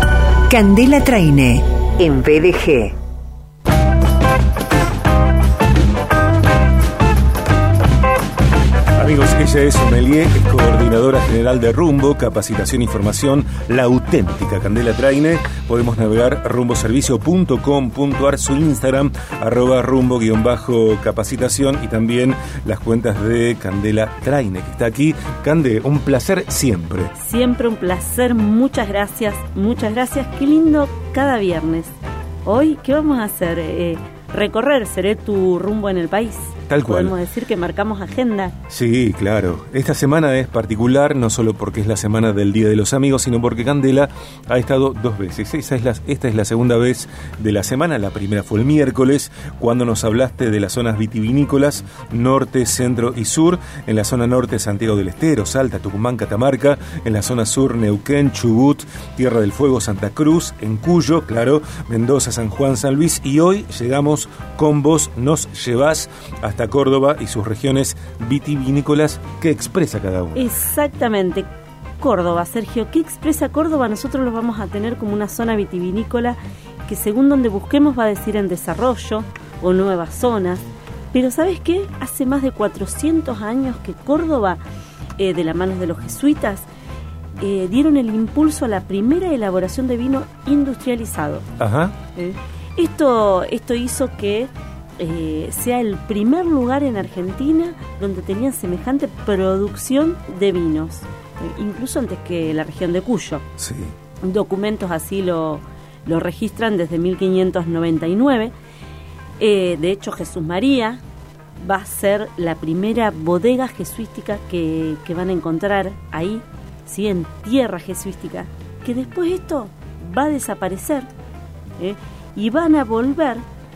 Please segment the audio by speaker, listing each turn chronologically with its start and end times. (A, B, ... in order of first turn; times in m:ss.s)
0:00.5-0:03.0 A
0:09.0-0:27.1 B
0:27.2-0:31.9 C
0:32.4-0:38.6 C
0:36.7-0:37.1 B
0:38.7-1:10.5 B
1:10.4-1:11.5 C
1:12.0-1:24.6 C
1:25.2-1:26.7 C
1:27.4-1:31.5 C
1:31.6-1:32.0 B
1:32.2-1:43.4 C
1:43.6-1:43.9 B
1:44.2-1:48.5 C
1:49.4-1:51.0 C
1:51.6-2:01.1 C
2:01.8-2:03.4 C